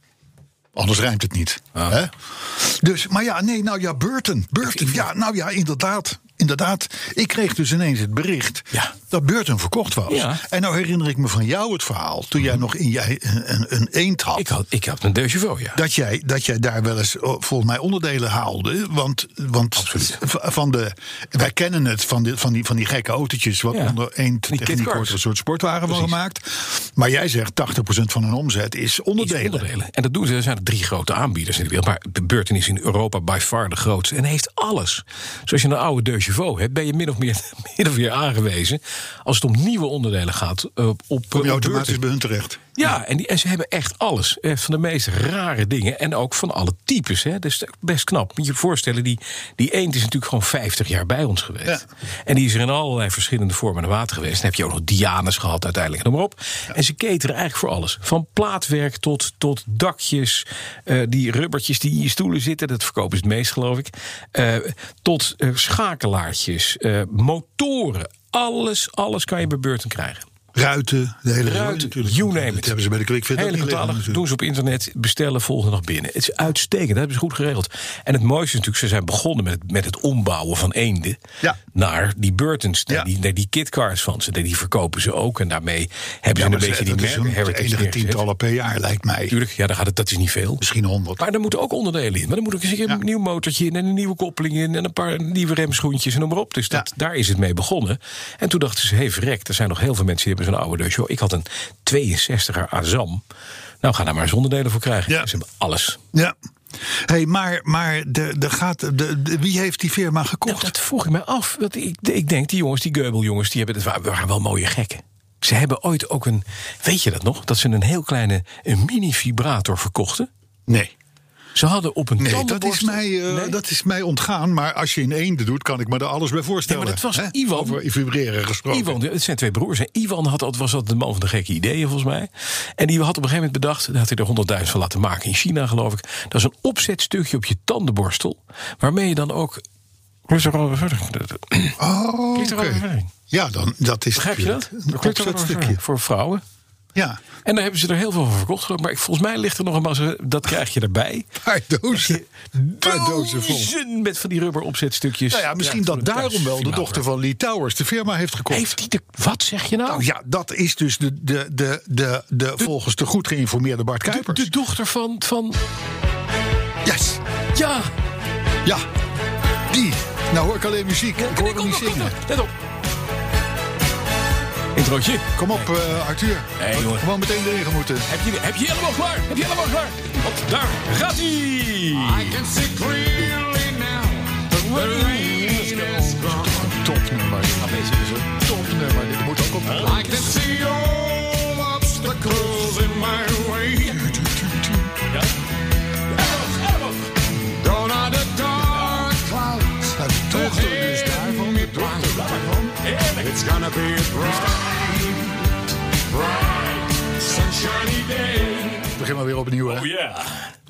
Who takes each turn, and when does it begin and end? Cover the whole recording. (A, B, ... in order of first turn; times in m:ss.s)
0:00.8-0:14.5 A
0:04.6-0:05.0 B
0:10.1-0:10.4 B
0:14.3-0:15.8 B
0:15.8-0:29.7 A
0:19.8-0:20.2 B
0:23.7-0:24.0 B
0:24.5-0:25.2 B
0:25.9-0:26.2 B
0:29.2-0:42.0 B
0:41.3-0:42.7 A
0:42.8-1:10.2 B
1:10.6-1:14.2 A
1:11.4-1:12.8 B
1:13.3-1:21.2 B
1:21.7-1:28.2 B
1:26.3-1:29.4 A
1:29.3-1:30.6 B
1:30.6-1:31.2 A
1:31.2-1:43.2 B
1:43.8-1:46.0 B
1:46.9-1:50.7 A
1:50.5-2:00.3 B
2:00.7-2:00.9 A
2:01.6-2:03.6 B
2:02.2-2:09.0 A
2:06.6-2:07.8 B
2:08.7-2:19.6 B
2:20.3-2:21.8 B
2:21.8-2:25.8 A
2:22.3-2:23.1 B
2:24.1-2:26.4 B
2:27.4-2:31.3 B
2:31.4-2:33.7 A
2:31.9-2:37.0 B
2:35.3-2:38.7 A
2:38.5-2:40.1 B
2:39.8-2:44.5 A
2:44.1-2:45.6 B
2:46.8-2:47.2 A
2:47.5-2:47.9 B
2:49.7-2:52.2 A
2:51.2-2:52.5 B
2:54.7-2:55.7 B
2:55.4-2:58.1 A
2:56.6-2:57.1 B
2:58.1-3:02.4 B
3:01.9-3:06.7 C
3:04.5-3:10.3 A
3:04.7-3:06.0 B
3:07.6-3:08.1 B
3:09.6-3:10.3 B
3:09.8-3:14.1 C
3:13.9-3:14.9 A
3:16.1-3:17.1 B
3:17.5-3:25.4 C
3:18.7-3:19.0 B
3:19.9-3:22.5 A
3:22.8-3:23.4 B
3:26.1-3:28.9 C
3:28.9-3:29.9 A
3:29.6-3:30.5 B